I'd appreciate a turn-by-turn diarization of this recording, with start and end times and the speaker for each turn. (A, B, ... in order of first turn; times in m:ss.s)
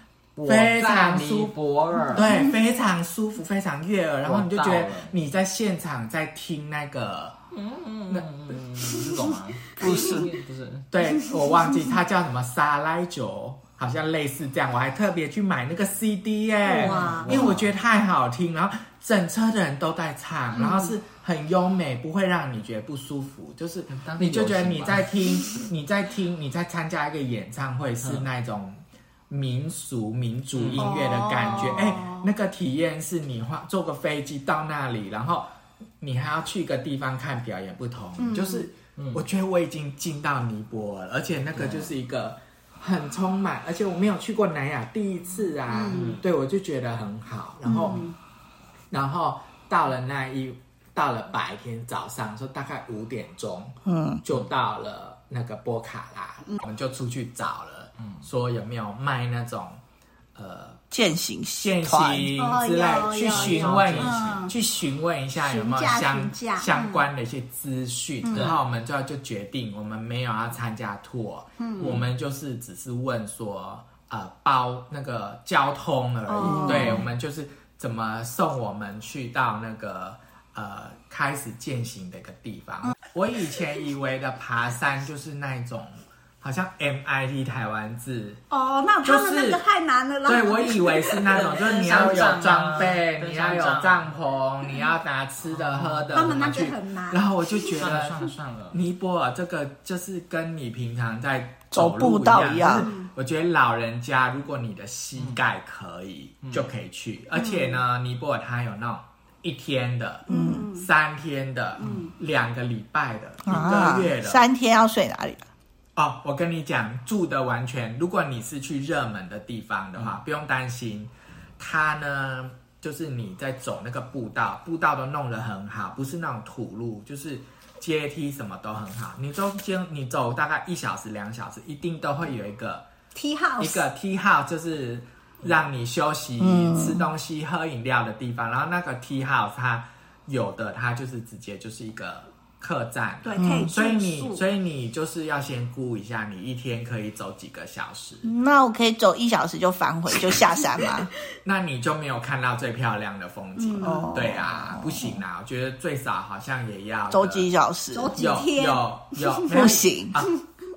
0:00.4-0:02.3 A
0:00.4-0:01.5 B
0:02.1-0:07.4 B
0:04.2-0:05.1 A
0:07.5-0:10.8 A
0:09.8-0:10.2 C
0:09.8-0:10.2 D
0:10.9-0:48.1 B
0:11.1-0:11.8 C
0:16.6-0:17.5 C
0:16.7-0:17.7 A
0:20.5-0:20.9 C
0:23.9-0:25.6 A
0:28.0-0:28.3 A
0:30.5-0:30.9 A
0:30.8-0:32.3 C
0:38.2-0:38.7 C
0:39.0-0:39.2 A
0:41.5-0:41.9 A
0:45.7-0:46.1 C
0:45.8-0:46.2 A
0:47.6-0:48.1 C
0:48.9-0:59.8 B
0:53.8-0:54.2 D
1:00.3-1:00.8 B
1:00.9-1:02.3 D
1:01.6-1:28.4 B
1:02.4-1:04.5 C
1:03.3-1:04.4 A
1:05.4-1:07.0 C
1:08.2-1:08.5 C
1:08.3-1:08.6 A
1:11.6-1:12.0 C
1:11.8-1:12.0 A
1:16.3-1:17.0 C
1:16.4-1:17.0 D
1:28.5-1:31.4 C
1:29.0-1:29.6 B
1:30.2-1:54.4 B
1:31.3-1:34.1 A
1:35.4-1:36.4 A
1:36.1-1:37.7 C
1:37.7-1:38.8 A
1:41.7-1:42.9 D
1:42.7-1:43.1 C
1:46.4-1:46.7 A
1:47.4-1:47.8 C
1:50.3-1:50.9 C
1:50.3-1:50.7 D
1:51.8-1:52.1 C
1:53.4-1:55.5 D
1:56.0-2:12.8 B
2:13.1-2:13.8 C
2:13.6-2:28.3 B
2:16.4-2:17.0 D
2:23.2-2:24.4 C
2:23.4-2:23.7 D
2:28.2-2:31.1 D
2:31.4-2:37.5 B
2:33.6-2:34.1 C
2:33.8-2:35.2 D
2:37.1-2:38.1 D
2:37.9-2:39.7 C
2:38.1-2:40.4 B
2:39.5-2:40.2 D